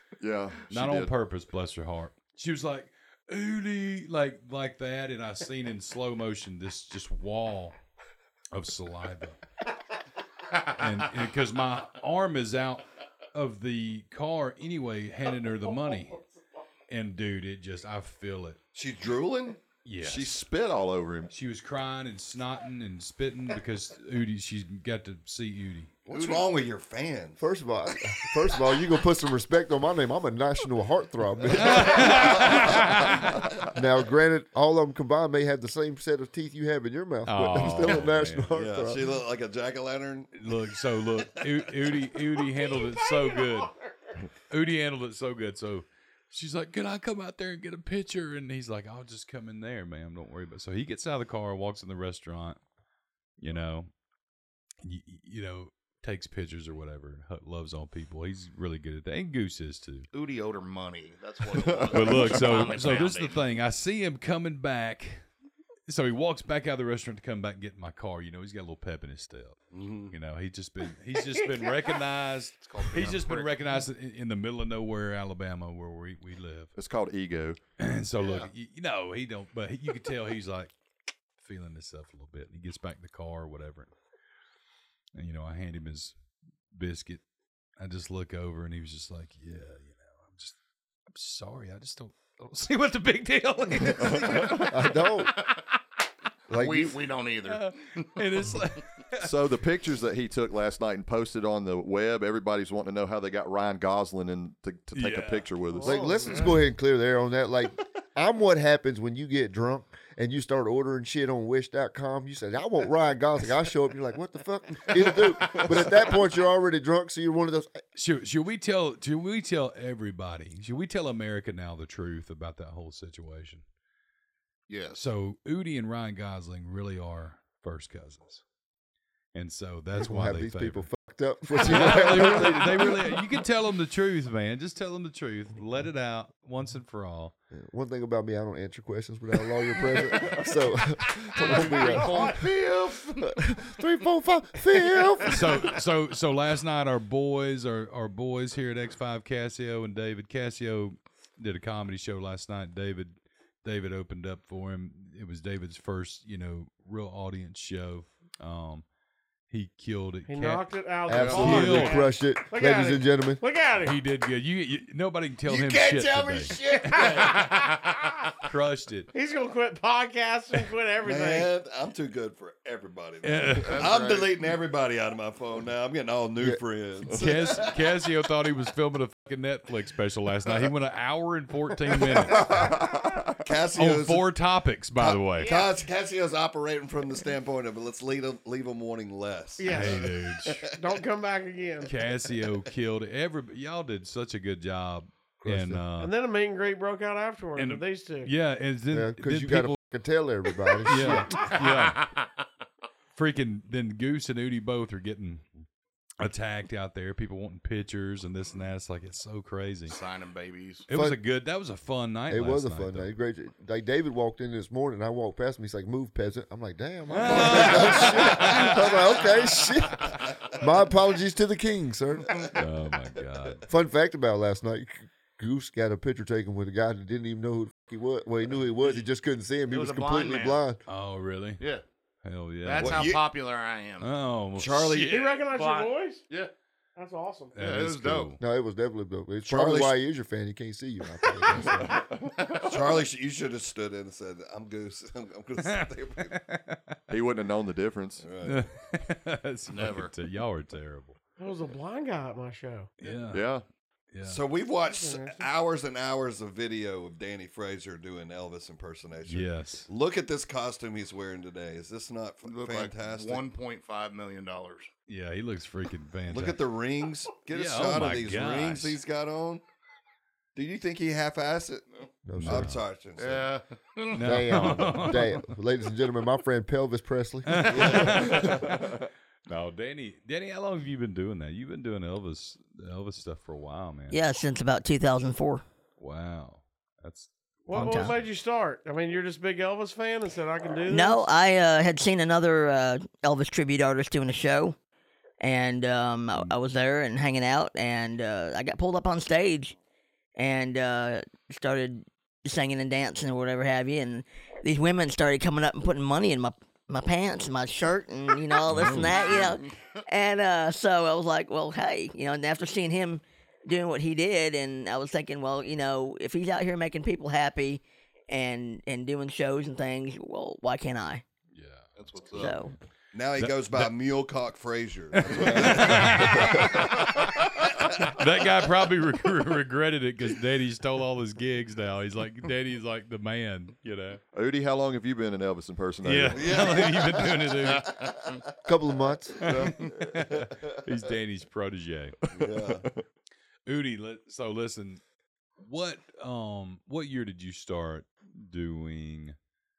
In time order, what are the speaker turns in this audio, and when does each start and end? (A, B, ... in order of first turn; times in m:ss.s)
0:00.2-0:01.1 A
0:00.7-0:07.8 B
0:08.5-0:09.4 B
0:10.6-0:16.2 B
0:16.9-0:18.6 B
0:18.7-0:19.6 C
0:19.8-0:20.4 B
0:20.0-0:21.3 A
0:21.3-0:25.9 B
0:26.1-0:27.4 C
0:26.1-0:26.4 D
0:27.4-0:32.8 E
0:31.6-0:33.4 B
0:31.7-0:32.7 C
0:33.7-0:39.1 E
0:37.2-0:38.5 B
0:38.5-0:41.6 C
0:40.3-0:43.7 B
0:42.5-0:44.1 F
0:44.5-0:52.6 B
0:53.4-0:53.9 B
0:54.8-1:00.1 B
1:00.1-1:03.4 D
1:01.6-1:02.4 A
1:01.9-1:05.2 B
1:05.9-1:16.7 B
1:09.7-1:10.1 C
1:11.4-1:11.9 F
1:12.6-1:13.6 D
1:16.8-1:17.6 A
1:17.8-1:20.7 B
1:21.4-1:23.9 B
1:25.1-1:26.2 B
1:26.7-1:27.2 B
1:27.8-1:30.5 B
1:31.1-1:34.8 B
1:34.5-1:35.4 E
1:36.5-1:37.0 E
1:36.5-1:38.1 D
1:37.4-1:39.3 B
1:39.2-1:46.3 A
1:44.9-1:45.5 B
1:45.8-1:57.8 E
1:45.8-1:46.5 F
1:57.9-2:03.6 B
2:04.7-2:05.0 D
2:05.0-2:08.4 B
2:09.3-2:10.9 B
2:09.9-2:13.2 E
2:11.6-2:17.3 B
2:17.5-2:25.7 E
2:21.3-2:23.3 D
2:25.3-2:38.8 B
2:39.5-2:40.7 B
2:40.3-2:44.0 F
2:41.1-2:43.4 E
2:41.1-2:41.6 D
2:41.2-2:42.0 B
2:43.8-2:47.0 B
2:45.4-2:47.5 C
2:46.9-2:47.6 D
2:48.4-2:49.1 B
2:49.1-2:51.5 F
2:51.0-2:57.7 C
2:53.2-2:53.8 B
2:53.6-2:54.3 D
2:56.4-2:56.6 E
2:57.1-3:02.6 B
3:02.4-3:02.8 C
3:02.5-3:03.4 A
3:03.4-3:04.3 C
3:03.8-3:05.5 B
3:05.0-3:10.9 C
3:09.6-3:10.1 F
3:09.7-3:10.7 B
3:10.8-3:12.1 F
3:11.8-3:16.1 B
3:15.4-3:15.8 E
3:16.0-3:18.3 F
3:17.6-3:19.8 B
3:18.9-3:21.5 E
3:20.8-3:22.1 B
3:21.6-3:22.3 D
3:23.2-3:25.5 B
3:26.2-3:30.0 B
3:29.9-3:30.8 D
3:30.9-3:33.1 B
3:30.9-3:31.2 E
3:32.3-3:42.4 E
3:37.1-3:39.3 B
3:37.3-3:38.5 C
3:42.5-3:43.7 B
3:43.7-3:50.8 E
3:49.7-3:50.6 D
3:50.9-3:51.6 B
3:52.2-3:53.1 B
3:52.6-3:54.1 D
3:52.8-3:53.2 C
3:54.0-3:55.0 B
3:54.6-3:55.3 C
3:54.7-3:56.5 D
3:55.1-3:56.2 F
3:57.0-3:57.6 F
3:57.5-3:58.4 B
3:57.6-3:58.3 D
3:58.4-4:02.0 E
3:59.4-4:00.0 C
4:01.5-4:02.1 B
4:02.4-4:06.4 C
4:05.6-4:07.0 B
4:07.1-4:08.2 A
4:08.2-4:08.7 C
4:08.4-4:11.2 B
4:09.7-4:10.1 D
4:11.4-4:12.9 F
4:13.0-4:13.5 B
4:13.3-4:13.6 A
4:14.1-4:14.4 B
4:14.2-4:23.4 C
4:14.8-4:15.5 F
4:19.2-4:19.9 B
4:22.4-4:24.9 D
4:25.1-4:26.6 B
4:26.3-4:29.6 C
4:27.5-4:29.0 B
4:30.5-4:31.9 C
4:32.2-4:32.8 E
4:32.4-4:32.8 B
4:32.4-4:33.5 C
4:33.2-4:34.1 D
4:34.1-4:35.4 B
4:34.1-4:38.6 E
4:37.4-4:38.8 B
4:37.7-4:38.2 C
4:39.5-4:44.2 B
4:44.1-4:45.6 G
4:46.0-4:48.2 B
4:47.7-4:51.3 F
4:47.7-4:48.2 G
4:50.9-4:54.8 G
4:55.4-4:59.8 G
5:00.4-5:21.2 G
5:08.7-5:09.1 B
5:09.0-5:10.0 D
5:21.5-5:22.6 B
5:22.0-5:22.6 D
5:22.4-5:22.7 G
5:23.1-5:27.1 C
5:23.4-5:23.9 B
5:25.1-5:27.3 B
5:25.6-5:26.3 A
5:27.8-5:34.2 B
5:27.8-5:28.1 C
5:34.3-5:36.7 A
5:36.0-5:37.9 B
5:36.3-5:38.3 C
5:37.7-5:38.4 D
5:38.6-5:39.4 E
5:39.1-5:40.8 C
5:39.4-5:42.2 B
5:42.3-5:42.8 C
5:42.5-5:43.0 A
5:43.6-5:45.0 B
5:45.6-5:49.4 B